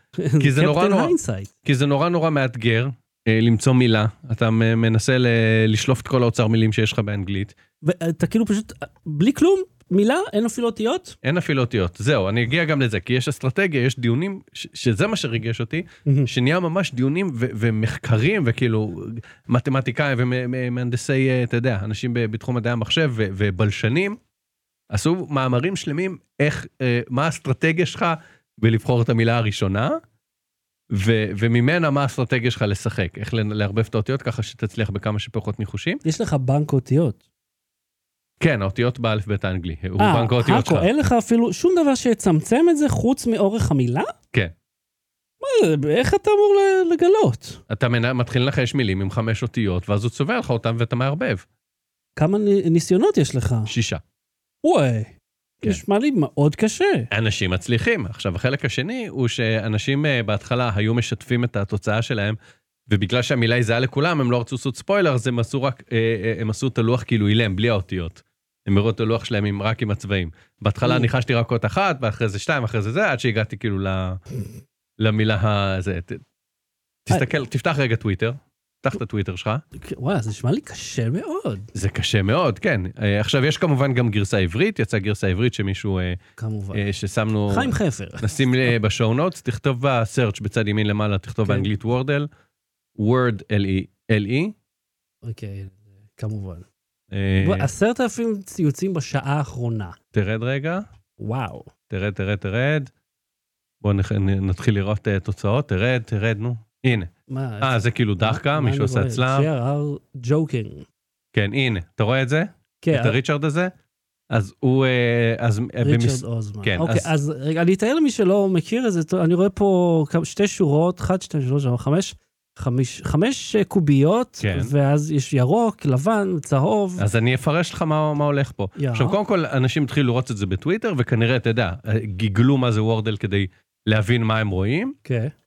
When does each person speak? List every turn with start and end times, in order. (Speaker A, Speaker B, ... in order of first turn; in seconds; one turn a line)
Speaker A: 0.2-1.5
Speaker B: 0.4-7.5
Speaker A: 7.8-11.2
Speaker B: 11.2-24.2
Speaker A: 16.1-16.3
Speaker B: 24.9-30.0
Speaker B: 30.9-36.0
Speaker A: 36.0-37.2
Speaker B: 38.4-40.9
Speaker A: 40.0-44.1
Speaker A: 45.4-47.6
Speaker B: 47.7-51.4
Speaker A: 52.2-53.7
Speaker B: 53.7-54.0
Speaker A: 54.6-57.1
Speaker B: 57.1-62.4
Speaker B: 62.9-74.2
Speaker A: 70.8-71.1
Speaker B: 75.0-76.2
Speaker B: 77.0-79.6
Speaker A: 79.8-81.7
Speaker B: 81.7-86.2
Speaker A: 86.4-86.8
Speaker B: 86.7-92.3
Speaker A: 87.5-88.7
Speaker B: 93.0-94.5
Speaker A: 95.2-96.7
Speaker B: 97.1-97.7
Speaker A: 97.4-100.0
Speaker B: 100.1-100.8
Speaker A: 101.2-101.7
Speaker B: 101.9-102.9
Speaker B: 103.8-107.1
Speaker A: 107.3-110.9
Speaker B: 107.6-109.5
Speaker B: 111.3-113.7
Speaker A: 112.8-113.2
Speaker B: 114.3-117.1
Speaker A: 115.8-127.0
Speaker B: 124.4-124.7
Speaker B: 127.0-134.9
Speaker A: 128.8-129.2
Speaker A: 135.0-135.3